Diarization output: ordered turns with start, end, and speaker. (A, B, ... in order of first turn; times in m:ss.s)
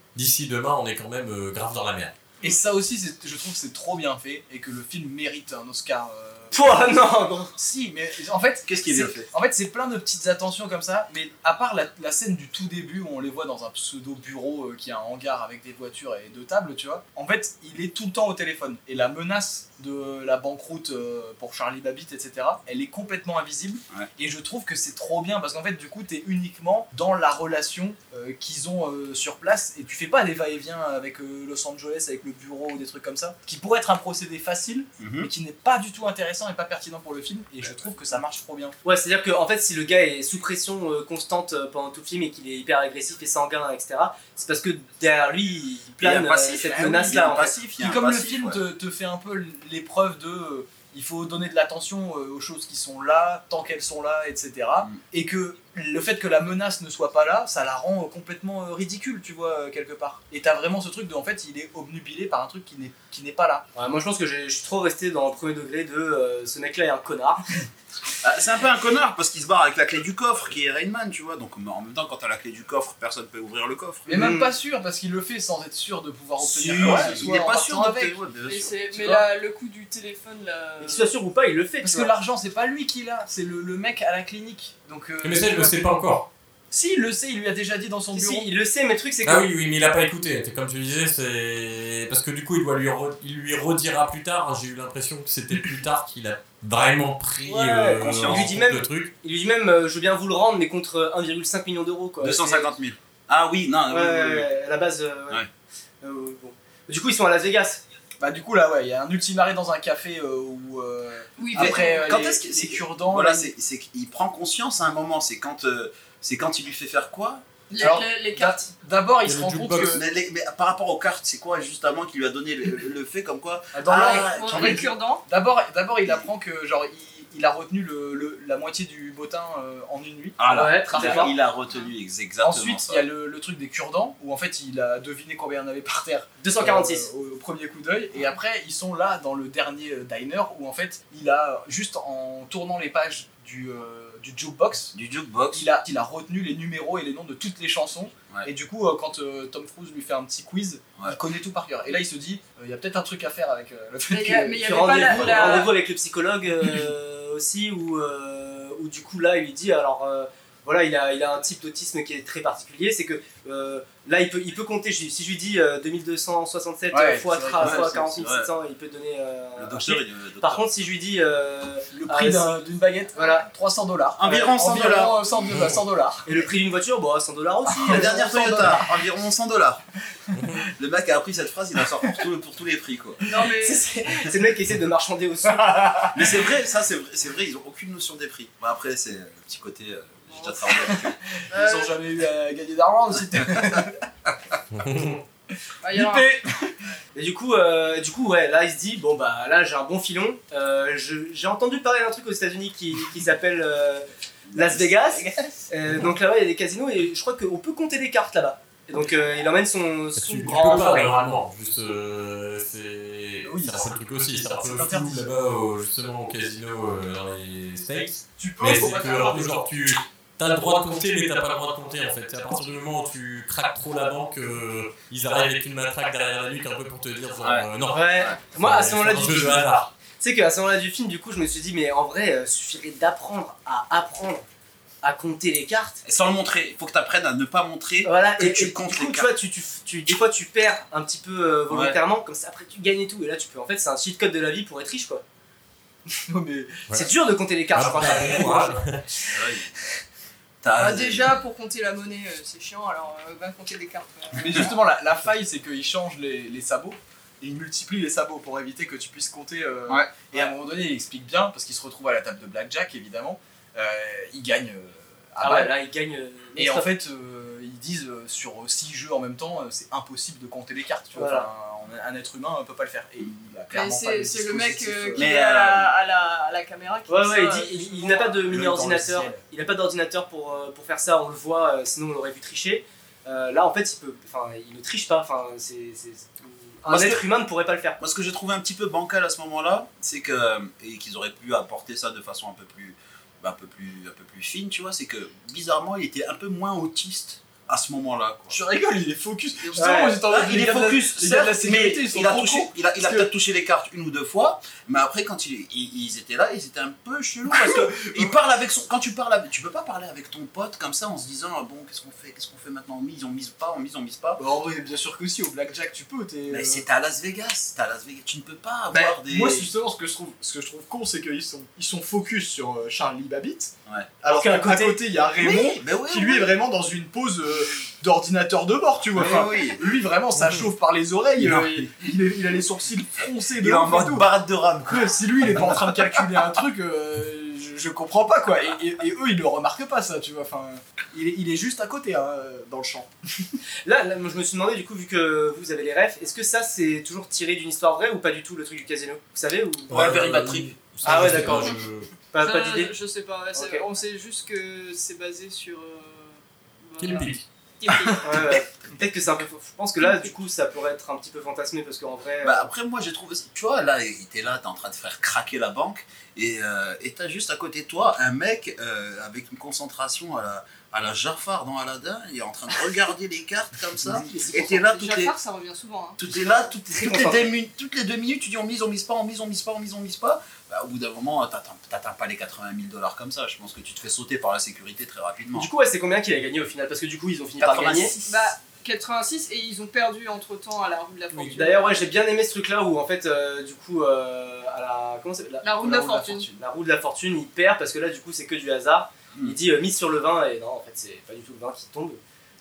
0:00.2-0:02.2 A
0:02.4-0:06.9 B
0:06.5-0:07.6 C
0:07.6-0:38.8 B
0:08.7-0:09.3 D
0:35.0-0:35.3 D
0:38.8-0:47.6 C
0:46.0-0:48.6 D
0:46.7-1:03.7 B
1:03.8-1:07.4 C
1:08.2-1:14.1 D
1:14.1-1:18.2 B
1:14.1-1:14.5 C
1:16.4-1:19.2 D
1:18.4-1:21.1 E
1:20.8-1:22.1 C
1:21.8-1:25.9 B
1:25.2-1:26.3 A
1:26.7-1:28.5 B
1:28.1-1:29.4 C
1:29.2-1:39.1 A
1:37.4-1:42.8 C
1:37.9-1:38.5 D
1:42.2-1:44.5 D
1:43.9-1:45.4 C
1:46.0-1:47.8 C
1:48.2-1:53.5 B
1:51.4-1:52.2 E
1:51.6-1:57.4 D
1:57.7-1:58.7 E
1:57.8-2:00.1 B
1:59.2-2:00.0 A
1:59.8-2:04.9 D
2:03.7-2:11.4 B
2:03.9-2:05.2 E
2:10.4-2:13.1 D
2:10.5-2:11.3 C
2:12.4-2:24.9 B
2:16.4-2:17.1 C
2:24.9-2:25.7 D
2:25.5-2:35.7 B
2:34.1-2:35.7 E
2:34.6-2:52.6 C
2:46.9-2:48.0 B
2:47.6-2:48.5 D
2:49.6-2:50.7 D
2:51.9-2:56.5 B
2:53.2-2:53.5 C
2:54.2-2:55.5 D
2:56.2-2:58.6 C
2:57.7-2:59.0 B
2:57.9-2:59.8 D
3:00.4-3:00.7 A
3:00.8-3:03.2 D
3:03.2-3:03.8 E
3:03.6-3:06.1 C
3:05.6-3:06.3 B
3:06.1-3:11.4 D
3:10.3-3:10.6 E
3:10.8-3:14.0 B
3:11.5-3:12.0 E
3:14.7-3:15.2 A
3:15.8-3:16.4 E
3:15.8-3:16.8 B
3:17.2-3:31.2 C
3:24.5-3:25.5 D
3:30.2-3:49.9 A
3:33.4-3:33.9 B
3:34.6-3:35.3 B
3:38.4-3:39.7 B
3:47.4-3:48.4 D
3:47.9-3:54.5 C
3:55.0-3:56.0 C
3:56.0-3:59.3 D
3:58.0-4:05.2 C
4:01.7-4:02.0 D
4:06.3-4:06.8 B
4:06.9-4:08.8 C
4:07.8-4:09.0 A
4:09.3-4:09.8 D
4:10.6-4:11.4 D
4:10.8-4:14.7 E
4:14.4-4:25.7 B
4:14.4-4:14.7 D
4:25.4-4:26.9 C
4:26.6-4:35.3 B
4:31.2-4:31.5 C
4:33.7-4:38.5 E
4:35.2-4:36.0 D
4:37.1-4:48.0 C
4:38.4-4:39.4 B
4:46.9-4:47.2 D
4:48.0-4:58.6 D
4:58.5-5:03.3 B
4:59.6-5:14.4 D
4:59.8-5:00.2 C
5:07.5-5:08.3 B
5:14.4-5:16.8 B
5:16.5-5:19.7 D
5:18.9-5:34.3 B
5:24.2-5:25.0 C
5:25.4-5:26.5 D
5:29.1-5:29.8 D
5:30.4-5:30.7 A
5:31.4-5:32.1 D
5:33.6-5:36.0 D
5:34.9-5:43.6 B
5:43.8-5:50.1 C
5:49.9-5:52.1 A
5:49.9-5:51.5 D
5:51.0-5:51.8 C
5:52.3-5:53.0 C
5:52.4-5:58.6 E
5:53.5-5:53.9 C
5:57.0-5:57.4 A
5:58.2-6:02.7 C
6:02.4-6:15.4 D
6:14.1-6:14.8 C
6:14.6-6:16.2 E
6:16.2-6:25.7 D
6:16.9-6:17.5 C
6:25.5-6:28.1 C
6:27.6-6:28.4 B
6:27.6-6:28.0 D
6:28.2-6:32.0 E
6:31.5-6:42.2 C
6:35.6-6:36.5 E